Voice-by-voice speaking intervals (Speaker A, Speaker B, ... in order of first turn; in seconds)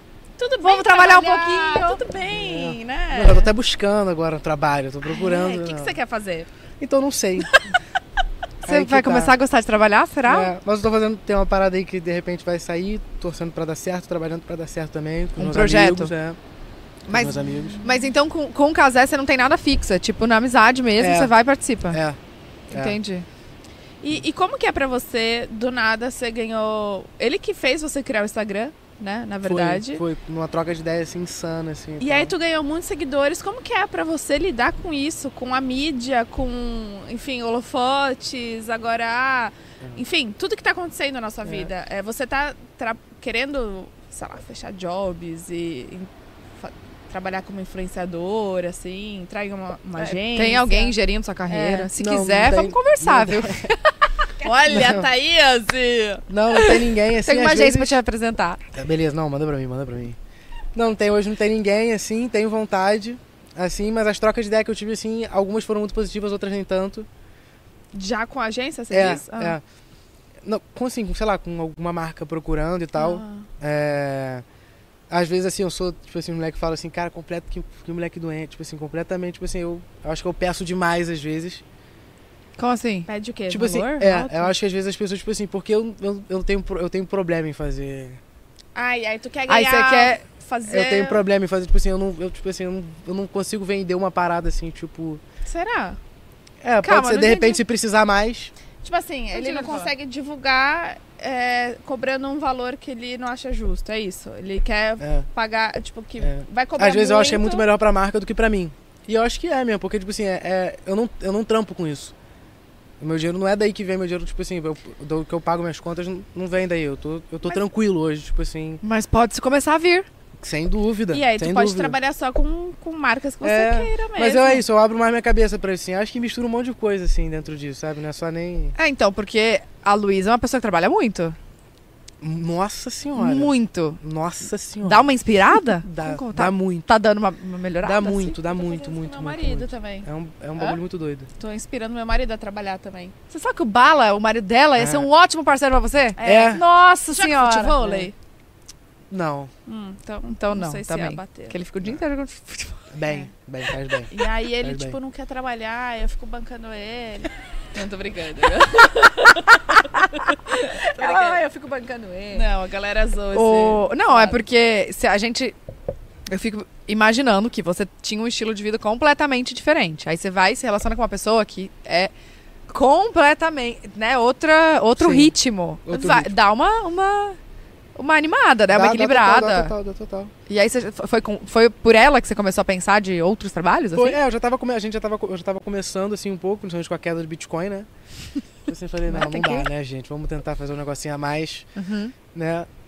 Speaker A: 0.4-3.5, 5.0-6.5, 17.4-18.0, 24.0-30.0, 32.0-51.0, 51.5-51.9, 54.4-56.2, 67.9-69.6, 73.0-73.5, 83.0-84.5, 88.7-91.2, 95.4-96.0, 98.8-107.7, 121.1-124.6, 138.4-140.8, 141.4-143.1, 146.2-148.1, 149.7-151.6, 153.0-153.3, 154.1-161.4, 162.3-164.4
Speaker B: 0.6-2.0, 8.6-10.5, 15.4-16.1, 17.1-22.0, 22.7-23.2, 50.2-53.9, 56.5-58.6, 82.6-83.1, 89.5-90.2, 96.8-97.6, 99.3-99.9, 118.8-120.1, 128.8-131.4, 133.1-134.0, 134.8-138.4, 143.3-147.8, 150.2-152.9, 159.0-162.5, 163.3-165.5, 166.3-172.1, 172.7-177.4, 177.9-179.7, 180.5-184.2, 189.1-189.7, 191.8-192.2
Speaker C: 2.3-6.0, 6.8-7.6, 8.6-9.3, 10.2-16.4, 17.1-17.8, 21.0-21.3, 21.9-22.2, 22.7-23.0, 29.4-32.3, 52.0-53.7, 54.7-55.1, 56.3-58.0, 58.7-60.2, 60.7-67.1, 68.9-69.6, 70.4-74.4, 75.1-81.6, 83.5-88.2, 90.6-95.2, 96.6-98.5, 105.0-105.3, 106.2-112.1, 113.0-118.8, 120.4-122.0, 123.4-128.8, 132.2-136.8, 137.8-141.3, 144.8-145.1, 146.2-146.6, 149.1-149.5, 152.9-154.9, 175.0-175.3, 175.8-176.3, 178.7-180.3, 183.9-187.9, 188.7-191.7, 192.3-192.7